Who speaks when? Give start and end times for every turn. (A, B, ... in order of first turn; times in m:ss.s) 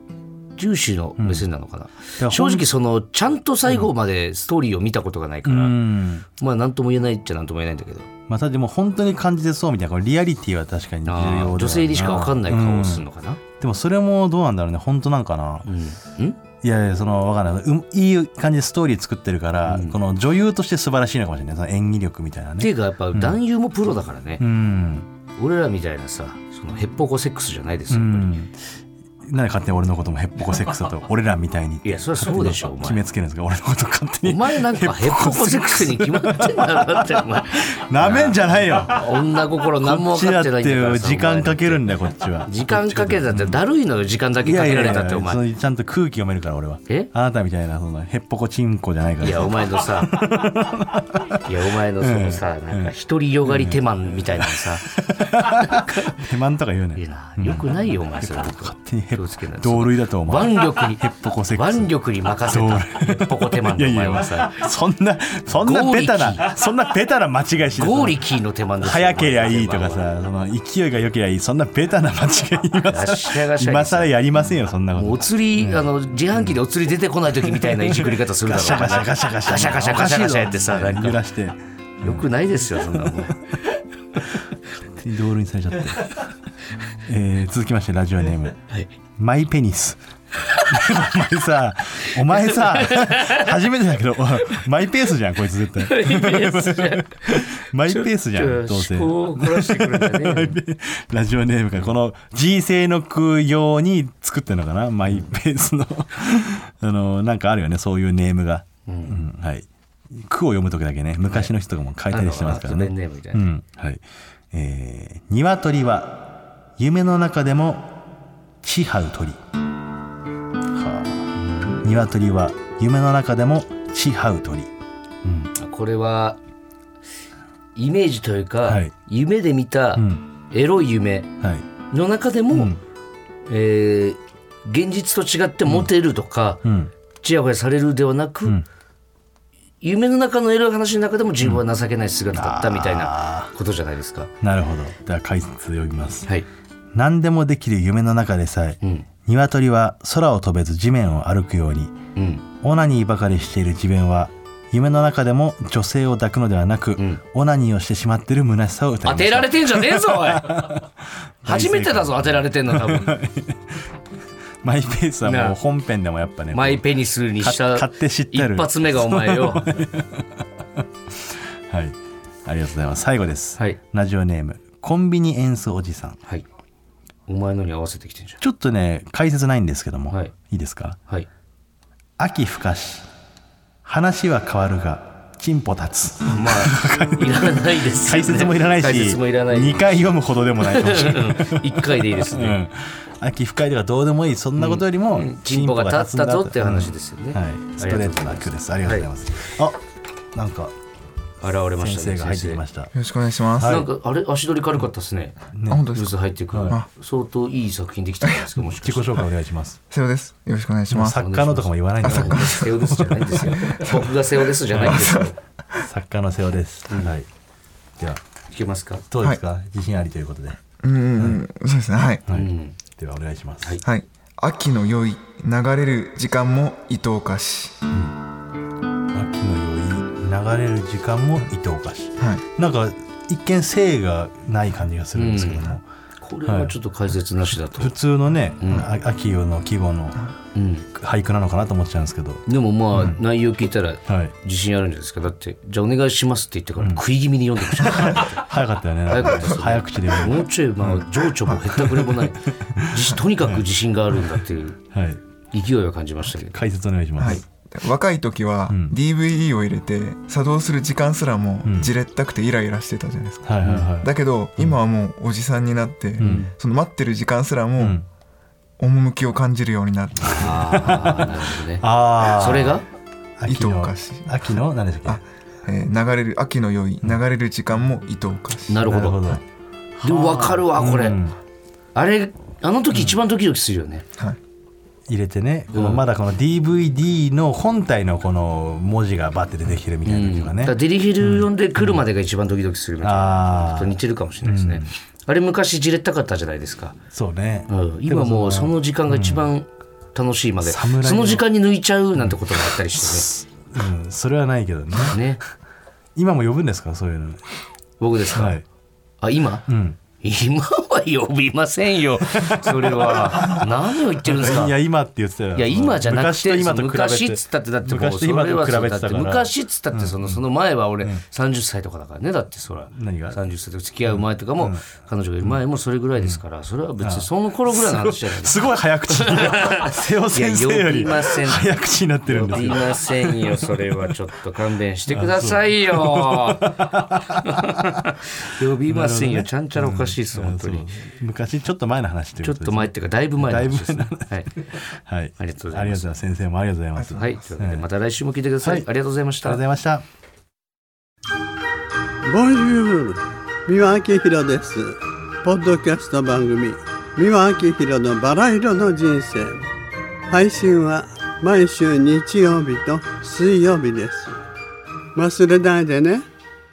0:00.6-0:08.1 A
0:01.2-0:01.5 B
0:02.2-0:02.7 B
0:05.4-0:06.3 B
0:08.3-0:13.0 B
0:11.1-0:13.4 A
0:13.6-0:15.7 B
0:15.6-0:16.4 A
0:16.6-0:23.4 B
0:19.7-0:20.0 A
0:22.6-0:24.4 A
0:24.4-0:25.1 B
0:25.4-0:28.3 A
0:27.9-0:28.6 B
0:29.2-0:43.6 B
0:31.8-0:33.0 A
0:34.2-0:41.8 A
0:42.4-0:45.4 A
0:44.4-0:52.9 B
0:49.2-0:50.2 A
0:51.4-0:56.2 A
0:53.4-1:01.9 B
0:57.0-1:04.6 A
1:02.4-1:08.2 B
1:05.6-1:06.5 A
1:07.8-1:10.0 A
1:08.8-1:16.6 B
1:12.9-1:14.2 A
1:14.9-1:21.2 A
1:17.5-1:23.4 B
1:22.0-1:23.4 A
1:25.0-1:26.2 B
1:27.0-1:28.6 B
1:29.2-1:30.0 B
1:30.5-1:30.8 A
1:30.7-1:57.9 B
1:32.3-1:33.6 A
1:35.8-1:40.6 A
1:48.9-1:49.2 A
1:52.1-1:53.4 A
1:58.6-1:59.4 B
2:00.7-2:04.7 B
2:01.4-2:01.8 A
2:05.2-2:05.5 B
2:05.6-2:06.4 A
2:07.8-2:11.3 A
2:08.6-2:08.9 B
2:10.0-2:10.2 B
2:11.4-2:11.7 B
2:11.9-2:12.8 A
2:12.5-2:12.8 B
2:13.5-2:16.6 A
2:16.6-2:16.9 B
2:17.2-2:18.6 A
2:19.8-2:24.3 A
2:22.3-2:23.5 B
2:24.4-2:26.3 B
2:26.9-2:32.0 B
2:28.8-2:29.1 A
2:32.2-2:32.4 A
2:32.6-2:40.8 B
2:39.0-2:40.8 A
2:41.4-2:43.9 B
2:41.4-2:43.1 A
2:44.6-2:46.9 B
2:45.2-2:45.6 A
2:46.5-2:49.7 A
2:47.4-2:56.2 B
2:57.3-2:58.4 A
2:58.4-3:01.0 B
3:02.2-3:03.1 B
3:03.8-3:19.8 B
3:06.3-3:12.6 A
3:14.6-3:19.1 A
3:20.3-3:20.7 B
3:21.4-3:22.6 A
3:21.8-3:22.9 B
3:22.9-3:23.8 C
3:23.6-3:23.9 B
3:23.6-3:29.2 A
3:25.6-3:25.9 B
3:25.7-3:26.1 C
3:28.6-3:29.8 B
3:29.9-3:31.2 C
3:30.9-3:34.0 B
3:31.1-3:35.4 A
3:32.0-3:32.7 C
3:33.4-3:33.9 C
3:34.7-3:35.1 B
3:34.9-3:35.8 C
3:35.8-3:37.3 B
3:38.5-3:39.0 A
3:39.1-3:40.6 B
3:40.8-3:42.2 C
3:42.3-3:43.8 B
3:42.3-3:42.8 A
3:43.8-3:47.9 C
3:49.1-3:55.8 B
3:52.2-3:52.4 C
3:55.2-3:58.0 A
3:56.4-3:56.7 B
3:57.8-4:00.2 B
3:58.6-3:58.9 A
4:00.6-4:00.9 A
4:01.0-4:02.4 B
4:02.5-4:08.4 A
4:02.9-4:03.2 B
4:04.1-4:04.3 B
4:07.8-4:11.0 B
4:09.1-4:14.8 A
4:11.8-4:14.4 B
4:14.9-4:15.2 B
4:15.5-4:16.6 A
4:16.3-4:17.4 B
4:17.2-4:17.4 A
4:17.2-4:28.0 C
4:18.7-4:18.9 B
4:21.6-4:21.9 B
4:23.4-4:24.8 B
4:23.6-4:23.9 A
4:26.2-4:26.5 B
4:26.2-4:26.5 A
4:27.8-4:28.0 B
4:28.8-4:31.2 C
4:30.2-4:32.9 A
4:30.5-4:32.8 B
4:33.4-4:35.2 B
4:33.5-4:34.4 C
4:35.1-4:38.9 C
4:38.7-4:39.4 A
4:38.9-4:39.4 B
4:40.0-4:41.4 B
4:40.0-4:41.2 A
4:41.9-4:44.0 A
4:45.1-4:52.0 B
4:45.7-4:46.0 A
4:50.0-4:57.0 A
4:53.0-4:54.9 B
4:57.1-4:59.5 B
4:57.7-5:03.3 A
5:00.6-5:01.4 B
5:02.2-5:05.3 B
5:05.1-5:05.4 A
5:06.2-5:07.4 B
5:08.0-5:08.6 A
5:08.3-5:08.6 B
5:09.2-5:09.7 A
5:09.7-5:10.0 B
5:10.2-5:14.8 A
5:12.2-5:13.7 B
5:14.2-5:20.4 B
5:15.5-5:41.0 A
5:22.9-5:23.4 B
5:24.1-5:24.9 B
5:27.0-5:34.0 B
5:35.1-5:38.1 B
5:38.9-5:47.8 B
5:42.4-5:44.7 A
5:45.4-5:46.1 A
5:47.0-5:47.5 C
5:47.2-5:49.6 A
5:49.4-5:50.0 B
5:52.2-5:59.6 D
6:00.3-6:04.4 D
6:05.2-6:06.2 D